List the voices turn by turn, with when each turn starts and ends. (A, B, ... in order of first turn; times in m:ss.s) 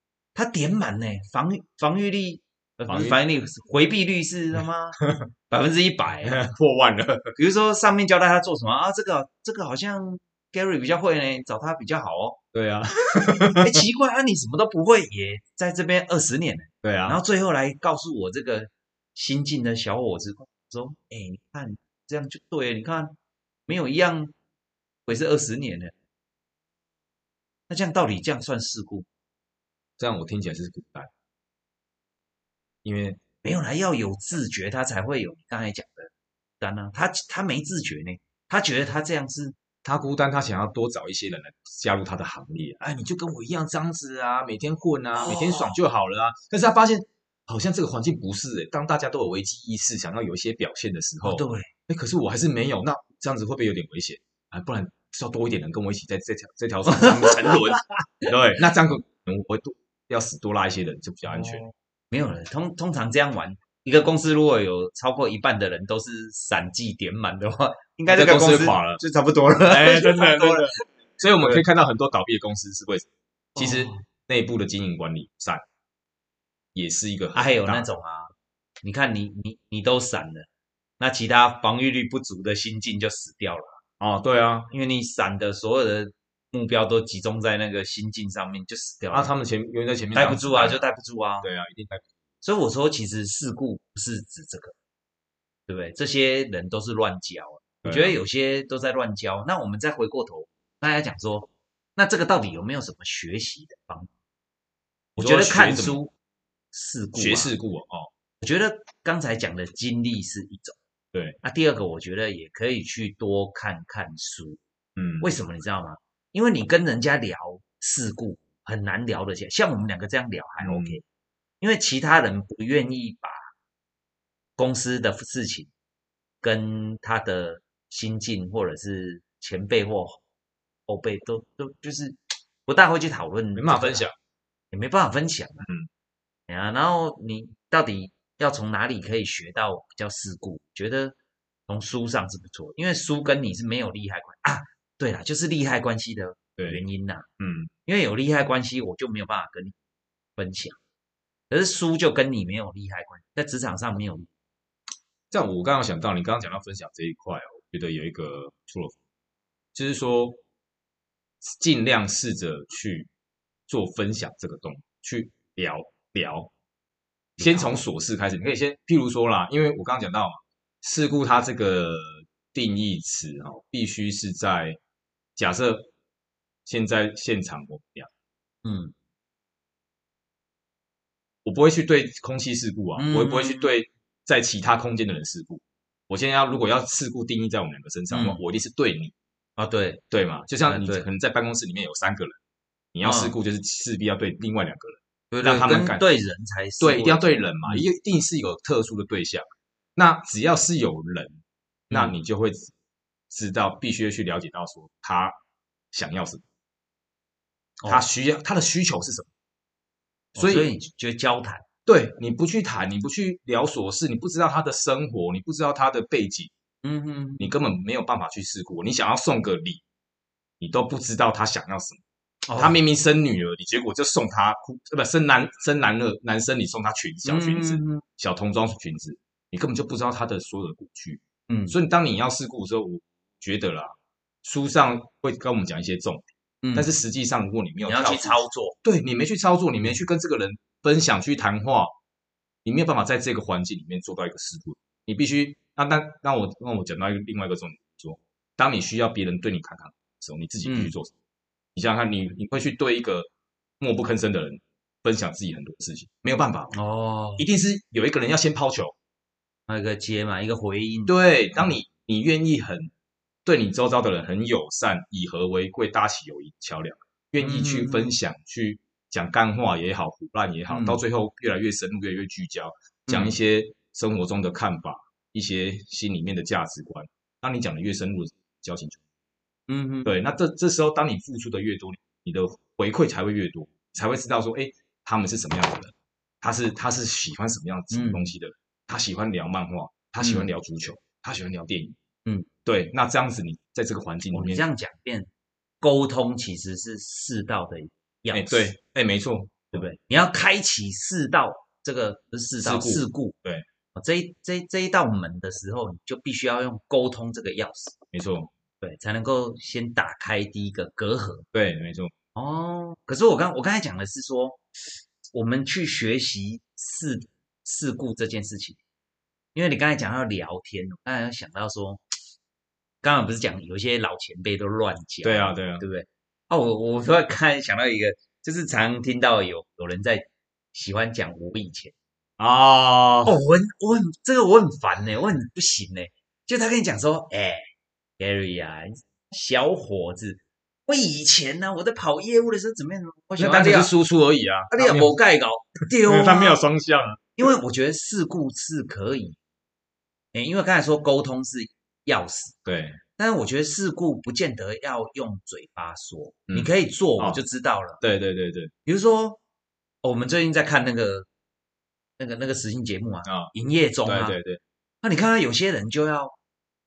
0:00.4-0:05.0 A
0:02.9-0:03.2 B
0:05.0-0:05.3 B
0:05.5-0:06.4 A
0:06.2-0:07.3 B
0:07.4-0:12.4 A
0:12.5-0:13.8 B
0:13.4-0:24.3 A
0:16.8-0:17.2 B
0:25.1-0:25.9 A
0:27.7-0:29.1 A
0:30.0-0:31.1 B
0:32.8-0:33.2 B
0:33.4-0:39.6 A
0:39.8-1:01.6 B
0:45.2-0:45.8 A
0:51.2-0:51.7 A
0:56.9-0:57.8 A
1:01.3-1:10.8 A
1:08.1-1:09.0 B
1:09.7-1:15.6 B
1:13.6-1:14.0 A
1:16.8-1:17.9 B
1:17.4-1:20.5 A
1:21.0-1:23.8 A
1:24.0-1:24.7 B
1:24.7-1:29.3 A
1:29.1-1:30.9 B
1:30.2-1:31.5 A
1:31.4-1:32.0 B
1:32.4-1:34.7 A
1:35.7-1:44.1 A
1:37.8-1:38.2 B
1:45.2-1:46.1 A
1:45.2-1:46.0 B
1:46.7-1:47.5 A
1:47.2-1:48.1 B
1:48.4-1:50.8 A
1:51.1-1:51.4 B
1:51.4-1:54.6 A
1:55.0-1:55.3 B
1:55.2-2:01.0 A
2:00.6-2:01.0 B
2:01.6-2:03.4 A
2:04.6-2:05.7 A
2:06.4-2:10.2 A
2:10.9-2:14.1 A
2:13.6-2:14.2 B
2:14.7-2:15.7 A
2:16.5-2:21.2 A
2:21.7-2:27.3 A
2:27.4-2:27.7 B
2:27.9-2:29.8 A
2:30.4-2:30.8 A
2:31.5-2:34.3 A
2:35.3-2:39.0 B
2:39.7-2:40.4 B
2:41.4-2:43.1 B
2:43.7-2:46.5 B
2:47.4-2:47.8 A
2:47.4-2:54.8 B
2:55.4-2:55.9 B
2:56.7-2:58.1 B
2:58.6-2:58.9 A
3:01.4-3:09.1 B
3:03.0-3:03.8 A
3:08.1-3:08.4 A
3:09.6-3:10.0 A
3:10.1-3:12.4 B
3:10.6-3:11.1 A
3:12.9-3:16.1 B
3:13.0-3:13.4 A
3:15.3-3:17.8 A
3:16.8-3:19.4 B
3:20.0-3:22.7 B
3:23.3-3:25.4 B
3:25.9-3:26.4 B
3:27.9-3:29.3 B
3:30.4-3:30.7 B
3:30.4-3:31.6 A
3:31.9-3:36.5 B
3:36.8-3:37.5 A
3:37.4-3:39.8 B
3:40.6-3:42.0 B
3:42.5-3:42.8 A
3:42.6-3:53.9 B
3:47.3-3:48.0 A
3:51.5-3:51.8 A
3:54.4-4:01.9 B
3:56.6-3:56.9 A
3:57.9-3:58.8 A
4:02.6-4:11.1 B
4:10.6-4:10.9 A
4:11.8-4:13.3 B
4:13.8-4:16.8 B
4:16.7-4:17.4 A
4:17.4-4:19.0 B
4:19.7-4:21.8 A
4:21.1-4:22.9 B
4:23.4-4:39.0 B
4:27.4-4:28.2 A
4:30.7-4:31.0 A
4:33.1-4:33.4 A
4:39.7-4:40.1 A
4:40.0-4:52.0 B
4:47.9-4:48.3 A
4:50.2-4:50.5 A
4:52.7-4:54.6 B
4:54.3-4:55.3 A
4:55.8-4:58.7 A
4:58.3-4:59.9 B
4:59.7-5:03.4 A
5:02.6-5:03.6 B
5:04.0-5:08.0 A
5:08.1-5:08.5 B
5:08.8-5:11.5 A
5:11.5-5:12.1 B
5:12.4-5:14.6 A
5:15.3-5:18.8 A
5:19.6-5:22.0 A
5:23.0-5:31.9 A
5:25.2-5:25.8 B
5:32.4-5:33.4 B
5:33.2-5:37.7 A
5:38.2-5:43.9 A
5:43.4-5:45.2 B
5:44.7-5:46.6 A
5:45.9-5:47.2 B
5:47.4-5:49.4 A
5:50.3-5:52.6 A
5:52.7-5:53.0 B
5:53.2-5:58.0 A
5:56.5-5:57.4 B
5:58.0-5:58.7 B
5:58.8-5:59.4 A
6:00.0-6:01.3 A
6:02.2-6:04.4 A
6:03.2-6:03.5 B
6:04.0-6:04.6 B
6:05.0-6:06.4 A